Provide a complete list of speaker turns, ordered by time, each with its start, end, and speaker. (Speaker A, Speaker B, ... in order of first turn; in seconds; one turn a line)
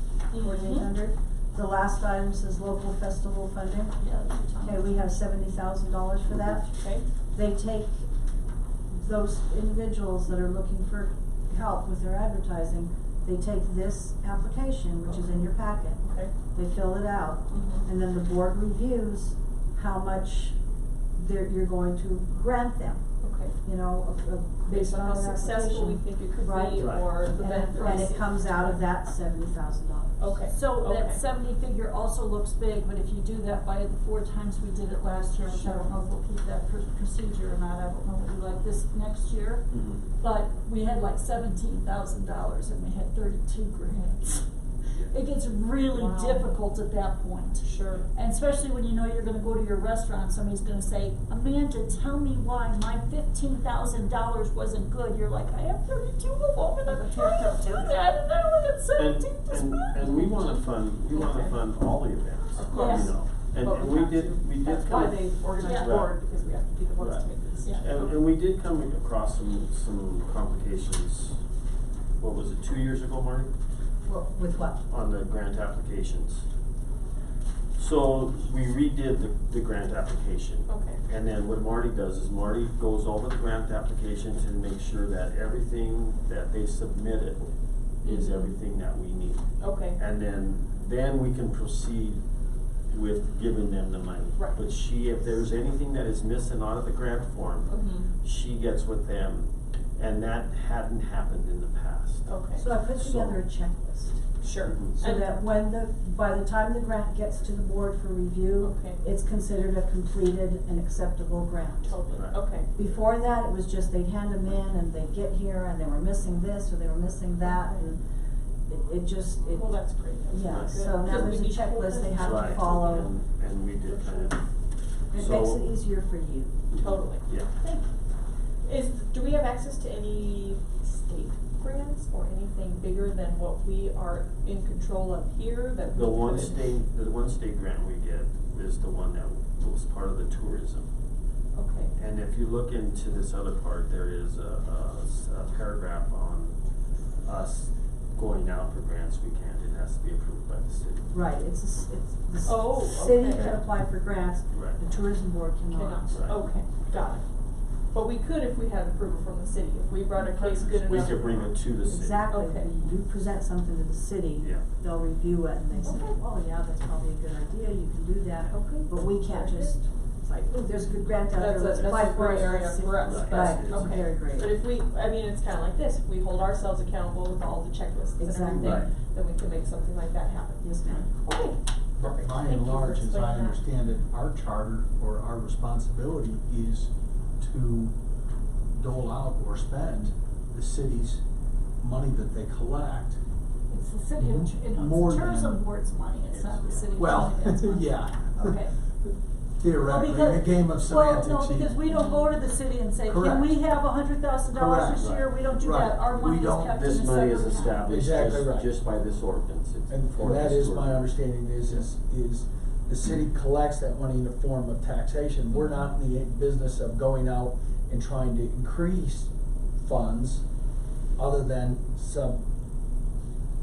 Speaker A: 0.3-0.9
Speaker B: 0.4-4.0
Speaker C: 4.0-5.2
Speaker B: 4.6-6.7
Speaker A: 6.8-7.1
Speaker B: 7.3-8.1
Speaker B: 8.9-20.6
Speaker A: 15.1-16.3
Speaker A: 17.5-17.9
Speaker B: 21.2-23.0
Speaker A: 23.2-23.6
Speaker B: 23.6-30.2
Speaker A: 24.7-28.8
Speaker D: 26.8-27.2
Speaker C: 27.4-28.1
Speaker A: 30.2-31.2
Speaker C: 30.5-44.5
Speaker A: 35.5-35.9
Speaker D: 39.7-40.0
Speaker C: 45.1-60.5
Speaker A: 45.9-46.6
Speaker A: 47.6-48.1
Speaker A: 56.9-57.6
Speaker D: 59.0-66.2
Speaker A: 61.1-61.6
Speaker A: 62.5-68.1
Speaker C: 62.7-63.1
Speaker C: 65.6-65.9
Speaker D: 67.0-67.3
Speaker D: 67.8-71.4
Speaker D: 72.2-73.5
Speaker B: 74.0-74.8
Speaker D: 74.9-76.4
Speaker D: 77.8-92.2
Speaker A: 80.7-81.0
Speaker A: 88.0-88.5
Speaker A: 89.6-90.0
Speaker D: 92.9-103.4
Speaker A: 97.7-98.1
Speaker A: 102.3-102.7
Speaker B: 102.5-104.2
Speaker A: 104.4-105.4
Speaker D: 104.7-105.0
Speaker B: 104.9-112.0
Speaker A: 108.6-109.0
Speaker A: 111.8-112.7
Speaker D: 112.1-112.5
Speaker B: 112.7-118.0
Speaker A: 117.5-117.9
Speaker B: 118.7-119.8
Speaker A: 119.5-123.1
Speaker B: 120.3-123.1
Speaker D: 120.5-120.9
Speaker D: 122.2-124.4
Speaker A: 123.8-124.3
Speaker B: 125.1-126.7
Speaker D: 125.1-125.7
Speaker D: 126.7-127.6
Speaker A: 126.7-127.8
Speaker A: 128.6-136.8
Speaker D: 135.9-140.9
Speaker A: 141.5-141.9
Speaker D: 141.9-146.6
Speaker D: 147.2-151.2
Speaker B: 151.1-156.5
Speaker A: 152.4-153.6
Speaker D: 153.3-153.6
Speaker D: 154.5-154.8
Speaker A: 155.7-157.2
Speaker D: 156.1-156.4
Speaker A: 157.9-161.7
Speaker D: 160.2-162.3
Speaker B: 161.8-174.5
Speaker A: 162.3-162.7
Speaker D: 164.4-164.7
Speaker A: 165.8-166.2
Speaker A: 168.5-169.8
Speaker A: 171.3-183.6
Speaker D: 171.8-174.1
Speaker B: 178.2-178.9
Speaker D: 178.6-178.9
Speaker B: 180.6-181.1
Speaker E: 182.0-187.9
Speaker E: 188.8-191.2
Speaker E: 191.8-193.2
Speaker C: 193.7-198.7
Speaker E: 194.2-195.6
Speaker D: 196.3-196.9
Speaker E: 197.0-201.8
Speaker C: 199.8-207.9
Speaker A: 201.9-202.3
Speaker E: 203.1-203.6
Speaker E: 204.5-206.8
Speaker D: 205.0-205.3
Speaker D: 206.6-211.1
Speaker E: 207.9-208.7
Speaker E: 209.9-220.4
Speaker E: 221.2-222.4